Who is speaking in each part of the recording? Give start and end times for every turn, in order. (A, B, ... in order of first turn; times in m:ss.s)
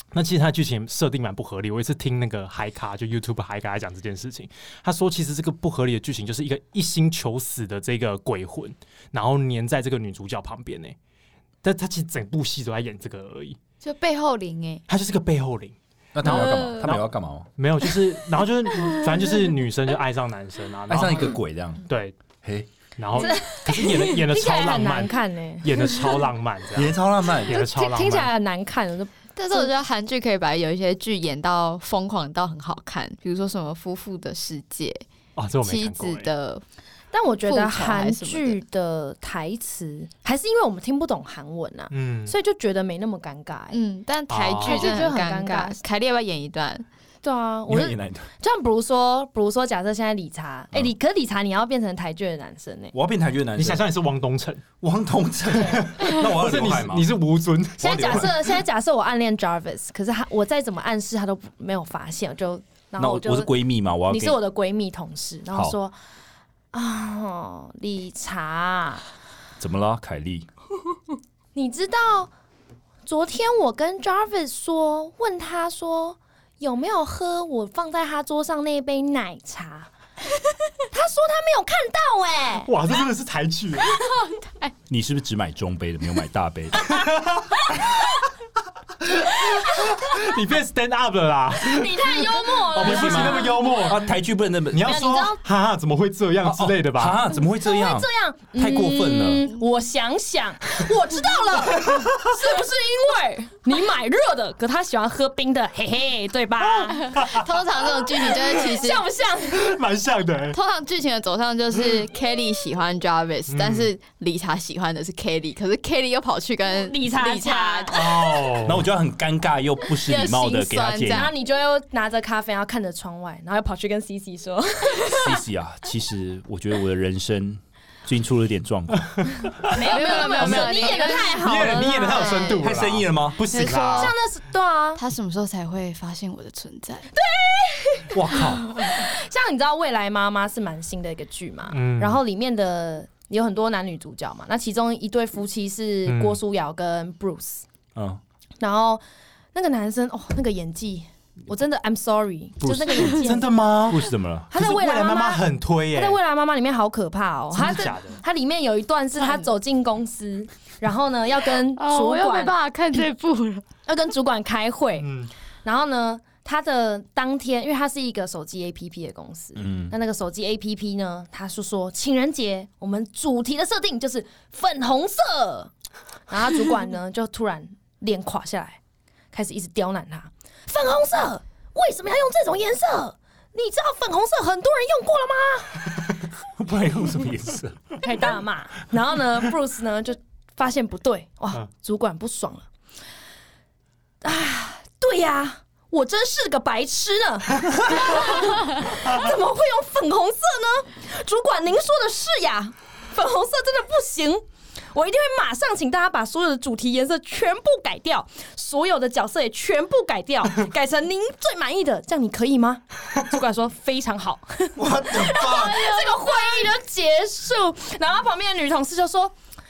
0:00.1-0:11.0 A
0:11.6-0:13.6 A
0:13.8-0:14.8 B
0:14.9-0:22.2 A
0:16.1-0:17.5 C
0:16.2-0:16.8 B
0:20.9-0:21.9 C
0:22.4-0:22.7 C
0:23.0-0:28.3 A
0:23.2-0:26.1 D
0:26.7-0:27.6 C
0:27.5-0:29.7 D
0:29.4-0:35.0 B
0:35.4-0:36.3 A
0:35.6-0:36.6 B
0:37.1-0:43.8 D
0:37.4-0:38.6 B
0:41.9-0:42.4 A
0:43.7-0:46.8 B
0:44.3-0:45.0 A
0:44.6-0:45.8 D
0:47.2-0:52.9 D
0:47.7-0:48.3 C
0:52.9-0:53.8 C
0:53.6-0:54.6 A
0:54.8-0:57.1 C
0:55.6-0:58.3 A
0:57.8-0:58.3 C
0:57.8-1:03.5 D
1:03.0-1:04.4 C
1:04.1-1:05.9 D
1:06.7-1:09.0 D
1:09.6-1:10.5 C
1:11.5-1:12.3 D
1:13.0-1:19.9 D
1:20.9-1:22.7 D
1:22.6-1:24.0 A
1:24.0-1:24.7 B
1:24.9-1:27.0 C
1:26.8-1:27.8 A
1:29.2-1:34.1 A
1:31.6-1:33.9 D
1:32.8-1:35.0 C
1:34.7-1:37.2 A
1:34.8-1:35.4 D
1:36.4-1:39.5 C
1:37.6-1:47.2 D
1:46.9-1:49.0 B
1:47.2-1:47.4 A
1:48.5-1:49.8 D
1:49.5-1:50.6 A
1:50.5-1:58.2 B
1:53.5-1:53.9 A
1:56.8-1:58.6 D
1:57.9-1:58.9 A
1:58.6-2:01.3 C
1:59.9-2:01.3 B
2:01.1-2:05.4 D
2:05.1-2:09.5 C
2:09.3-2:14.1 A
2:09.7-2:12.7 D
2:09.8-2:12.4 B
2:12.6-2:13.4 C
2:13.5-2:14.2 B
2:13.9-2:15.0 D
2:15.0-2:17.1 B
2:17.1-2:27.6 D
2:18.1-2:18.7 C
2:21.7-2:22.2 A
2:26.0-2:26.4 A
2:27.9-2:28.2 C
2:28.6-2:29.0 D
2:29.5-2:33.5 D
2:32.6-2:33.2 C
2:33.1-2:36.2 A
2:33.9-2:34.5 C
2:34.5-2:42.6 D
2:37.5-2:38.2 A
2:41.7-2:43.6 B
2:43.9-2:45.1 D
2:45.0-2:45.3 A
2:45.6-2:55.7 D
2:49.6-2:49.9 C
2:56.3-2:58.8 D
2:59.3-3:06.0 D
3:06.6-3:07.8 C
3:08.0-3:12.7 D
3:14.2-3:39.3 D
3:34.8-3:35.8 C
3:35.5-3:36.7 B